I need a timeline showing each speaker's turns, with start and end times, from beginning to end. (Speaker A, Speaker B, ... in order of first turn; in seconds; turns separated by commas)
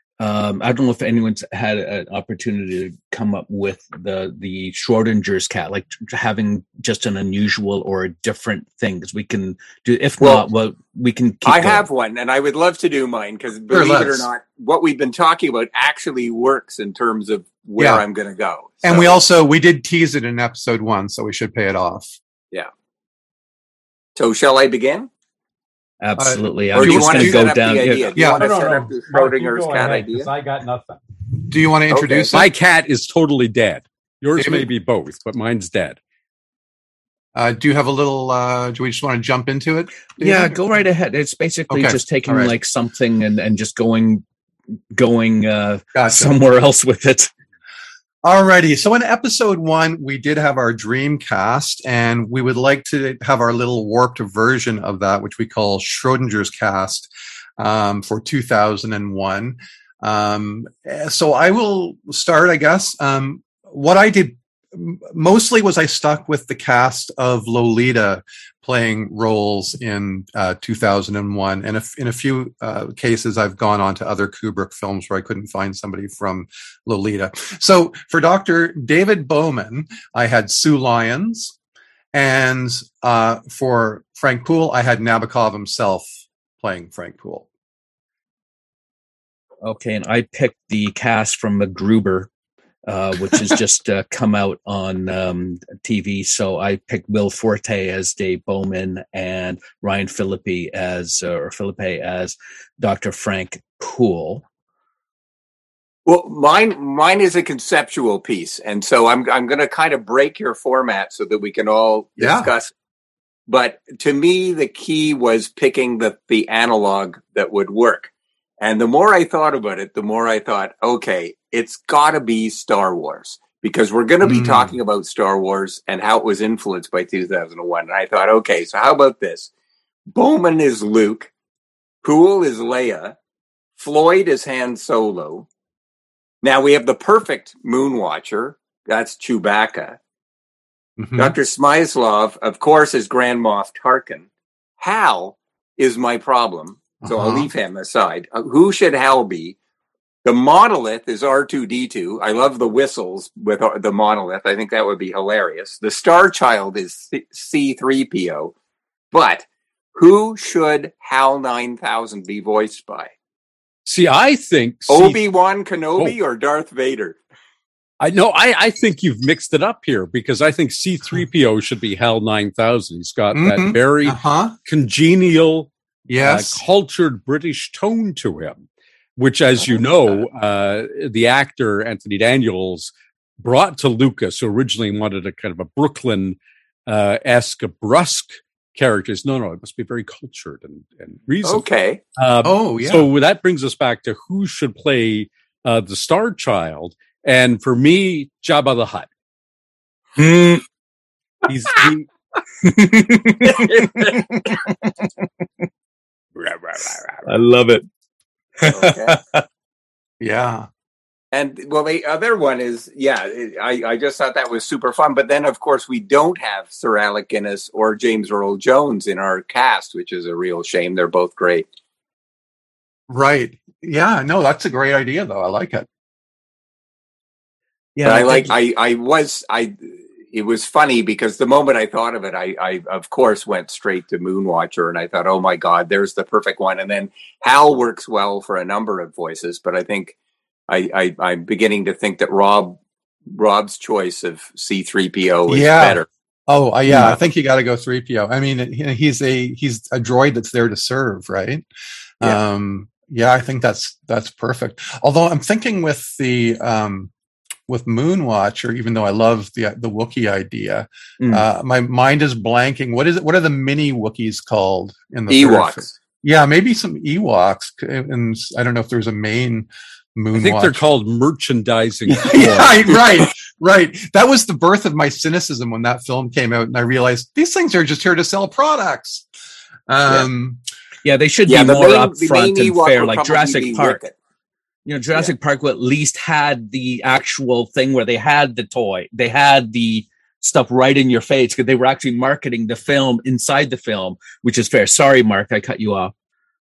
Speaker A: 0.2-11.8, Speaker B: 10.2-10.5, Speaker B: 11.4-19.2, Speaker C: 13.7-14.3, Speaker C: 17.8-18.0, Speaker C: 18.8-22.1, Speaker B: 24.1-25.1, Speaker A: 26.0-28.1, Speaker C: 26.1-27.6, Speaker B: 26.7-30.3, Speaker C: 28.1-28.6, Speaker D: 28.3-31.0, Speaker C: 31.4-32.4, Speaker B: 31.9-32.4, Speaker D: 32.3-36.0, Speaker C: 34.4-34.7, Speaker C: 37.3-40.6, Speaker A: 40.2-44.2, Speaker C: 41.7-42.5, Speaker A: 44.9-47.3, Speaker C: 45.9-46.3, Speaker C: 48.2-81.5, Speaker C: 82.1-87.4, Speaker A: 89.6-92.3, Speaker A: 92.8-104.4, Speaker B: 106.0-112.7, Speaker C: 112.2-112.5, Speaker B: 113.5-129.5, Speaker C: 124.2-124.8, Speaker B: 130.1-131.3, Speaker B: 132.0-133.2, Speaker B: 133.8-135.5, Speaker B: 136.4-140.0, Speaker C: 141.0-141.3, Speaker B: 141.2-144.3, Speaker B: 144.8-149.6, Speaker C: 147.0-147.5, Speaker B: 150.2-158.5, Speaker B: 159.1-163.1, Speaker D: 163.8-165.2, Speaker B: 164.9-167.2, Speaker D: 168.0-178.6, Speaker C: 173.3-174.5, Speaker C: 176.1-176.6, Speaker D: 179.2-191.6, Speaker B: 191.4-192.0, Speaker D: 192.2-199.1, Speaker C: 192.4-193.1, Speaker A: 200.2-200.6, Speaker D: 201.4-202.1, Speaker A: 202.6-205.2, Speaker B: 203.6-204.3, Speaker D: 206.4-207.1, Speaker A: 207.2-207.8, Speaker A: 208.6-209.4, Speaker B: 208.7-209.1, Speaker C: 210.2-210.7, Speaker B: 211.3-221.7, Speaker C: 223.1-225.9, Speaker A: 227.9-228.5, Speaker B: 228.0-240.1, Speaker B: 240.7-242.8, Speaker B: 243.3-246.1, Speaker C: 245.5-251.6, Speaker C: 252.2-257.1, Speaker C: 257.7-270.8, Speaker A: 261.2-261.4, Speaker B: 265.3-265.9, Speaker D: 270.3-272.9, Speaker C: 272.1-279.2, Speaker C: 279.9-280.6, Speaker A: 281.0-284.0, Speaker B: 281.5-284.1, Speaker A: 284.9-296.1